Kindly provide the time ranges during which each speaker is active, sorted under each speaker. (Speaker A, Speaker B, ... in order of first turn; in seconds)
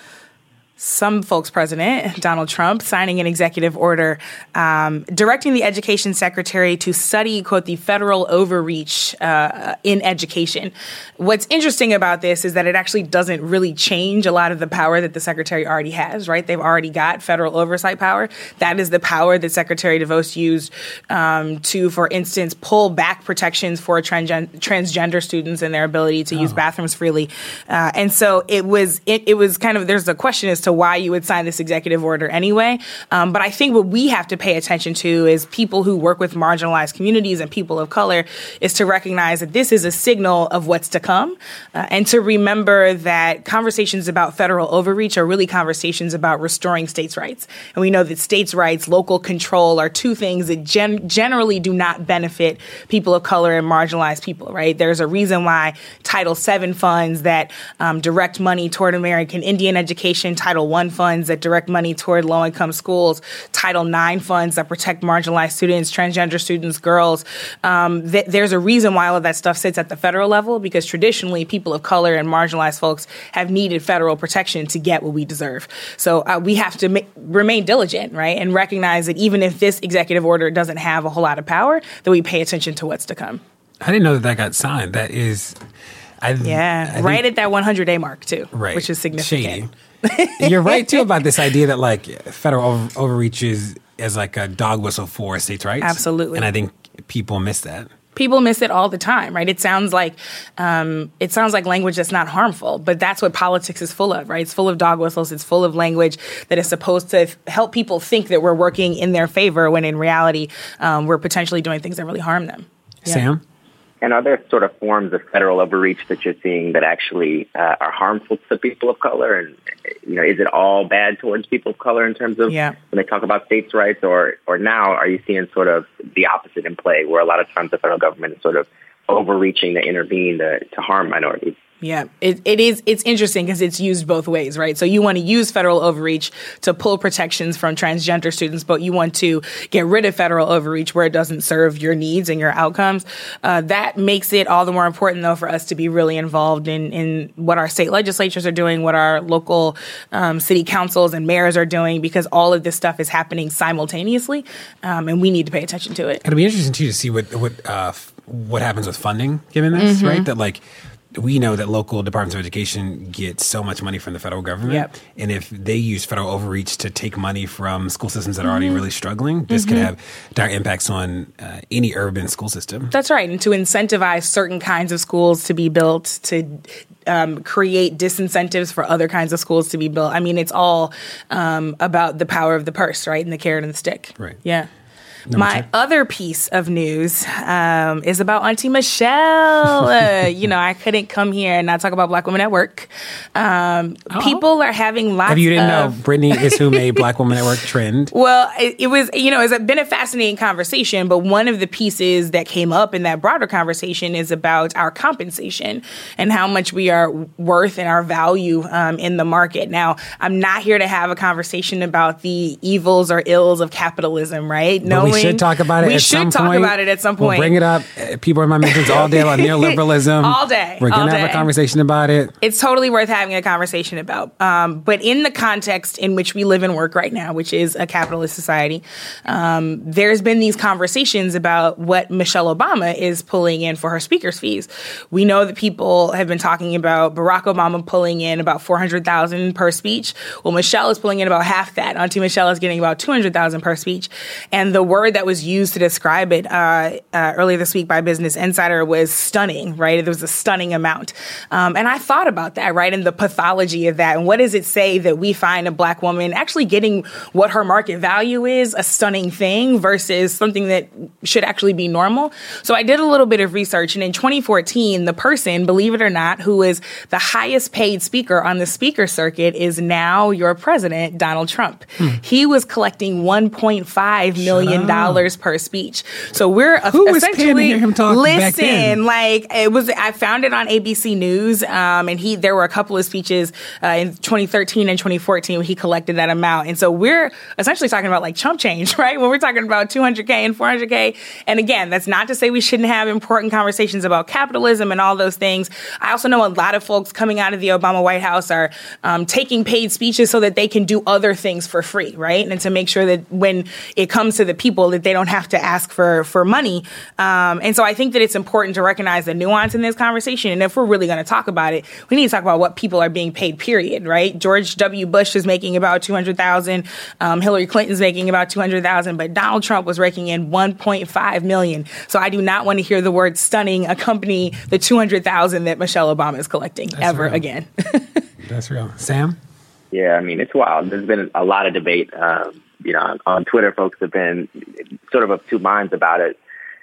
Speaker A: 0.8-83.4, 86.4-91.1, 95.8-96.5, 98.2-113.3, 122.5-122.8, 131.8-156.2, 159.8-160.3, 164.7-164.9, 168.4-168.8, 169.5-169.9, 172.9-184.7, 185.3-197.0, 198.1-217.6, 218.6-221.5, 222.4-328.2
Speaker B: 26.3-26.6, 83.8-85.6, 86.2-87.2, 88.5-89.7, 90.4-97.9, 113.0-113.4, 156.2-160.6, 161.1-172.9, 185.3-185.7, 194.1-194.4, 195.3-198.1, 214.8-222.3, 274.4-275.2, 276.8-279.0, 326.9-327.4, 328.4-329.4
Speaker C: 114.0-131.6, 329.9-334.5, 335.1-336.4